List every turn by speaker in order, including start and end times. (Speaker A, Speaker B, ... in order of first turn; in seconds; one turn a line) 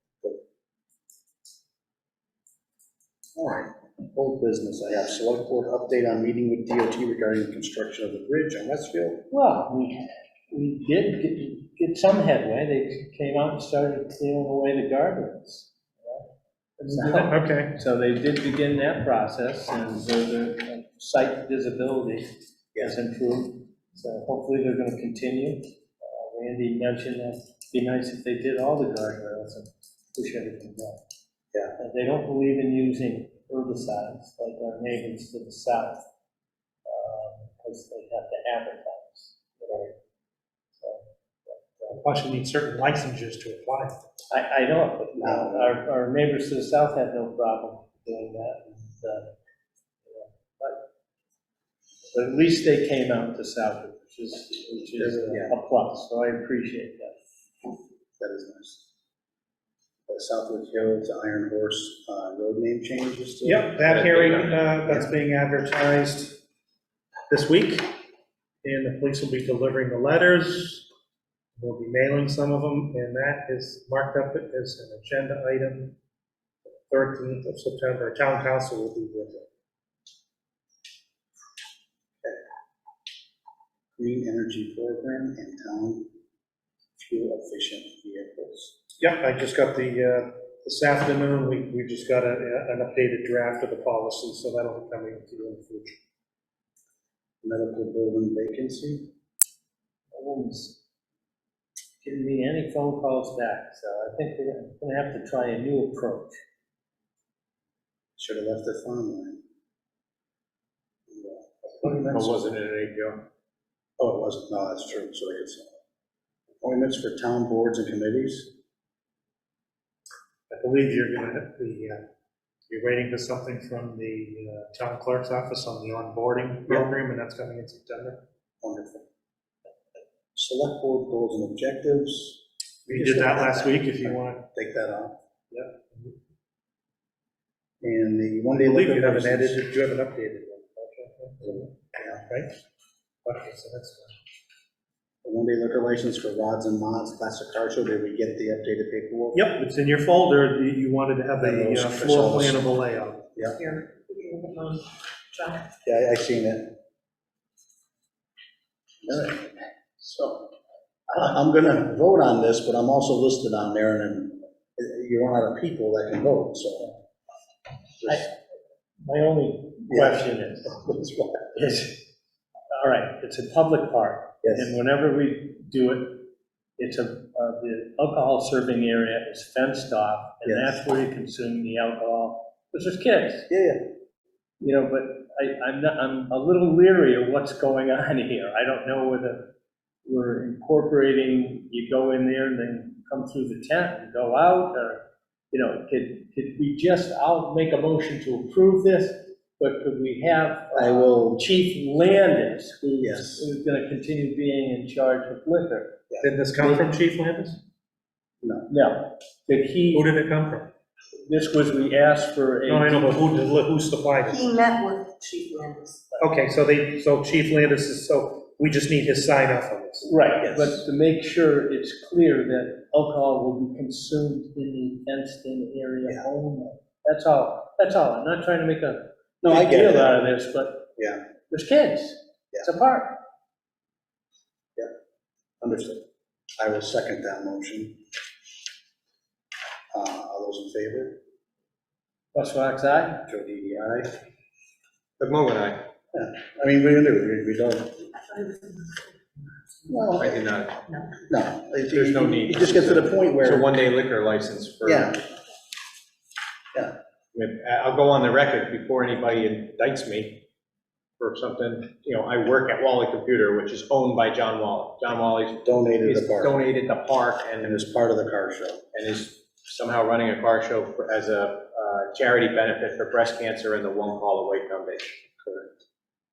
Speaker A: 3.4-9.2
Speaker B: 9.3-16.3
Speaker B: 16.8-31.0
Speaker C: 17.1-17.7
Speaker B: 31.8-36.0
Speaker B: 36.8-39.9
Speaker B: 40.8-42.0
Speaker C: 41.9-44.0
Speaker B: 44.3-49.3
Speaker A: 45.1-45.8
Speaker B: 50.0-50.8
Speaker B: 52.1-57.1
Speaker A: 55.0-55.5
Speaker A: 58.2-58.8
Speaker A: 60.1-63.7
Speaker C: 63.5-66.4
Speaker D: 63.8-64.6
Speaker C: 67.3-67.9
Speaker C: 68.6-70.9
Speaker C: 71.6-75.9
Speaker C: 76.9-79.5
Speaker A: 84.0-86.0
Speaker A: 87.0-88.7
Speaker C: 89.0-96.0
Speaker A: 97.4-99.1
Speaker B: 100.1-100.8
Speaker B: 102.0-106.4
Speaker A: 108.2-109.4
Speaker A: 111.1-112.2
Speaker B: 111.8-112.1
Speaker D: 112.1-113.2
Speaker A: 114.0-115.7
Speaker A: 116.6-118.5
Speaker C: 120.5-122.0
Speaker C: 122.7-128.2
Speaker A: 128.6-129.0
Speaker A: 130.3-135.2
Speaker C: 132.9-134.4
Speaker C: 135.5-136.1
Speaker A: 137.8-139.6
Speaker C: 138.7-142.5
Speaker A: 141.4-142.2
Speaker C: 143.2-144.2
Speaker A: 145.2-149.5
Speaker C: 149.3-153.2
Speaker A: 151.4-152.6
Speaker E: 153.5-155.7
Speaker A: 155.8-156.7
Speaker A: 159.0-160.5
Speaker A: 161.1-166.9
Speaker A: 168.0-168.3
Speaker B: 168.0-168.3
Speaker B: 169.0-170.9
Speaker A: 169.9-171.6
Speaker B: 171.5-172.1
Speaker B: 172.7-176.2
Speaker A: 174.4-174.7
Speaker B: 176.8-183.5
Speaker A: 180.4-180.8
Speaker A: 183.5-183.8
Speaker B: 184.6-189.4
Speaker B: 190.0-205.9
Speaker A: 200.7-201.4
Speaker A: 203.0-203.5
Speaker C: 206.2-207.6
Speaker A: 208.4-208.7
Speaker B: 208.7-210.1
Speaker C: 209.9-210.7
Speaker B: 211.2-213.3
Speaker C: 212.7-214.4
Speaker E: 214.2-216.1
Speaker C: 216.2-220.1
Speaker B: 220.0-230.8
Speaker A: 220.4-220.8
Speaker A: 229.4-230.2
Speaker B: 231.5-233.2
Speaker A: 235.6-236.0
Speaker A: 236.6-237.9
Speaker A: 239.9-241.2
Speaker B: 242.3-243.2
Speaker A: 243.3-244.1
Speaker D: 245.2-245.8
Speaker A: 246.1-248.0
Speaker E: 248.3-249.0
Speaker A: 249.8-250.4
Speaker D: 250.2-250.8
Speaker A: 251.3-253.7
Speaker D: 251.9-255.2
Speaker A: 254.8-255.2
Speaker D: 257.3-260.4
Speaker D: 261.2-267.8
Speaker A: 265.6-266.6
Speaker A: 267.6-268.8
Speaker D: 268.9-275.2
Speaker A: 275.4-275.7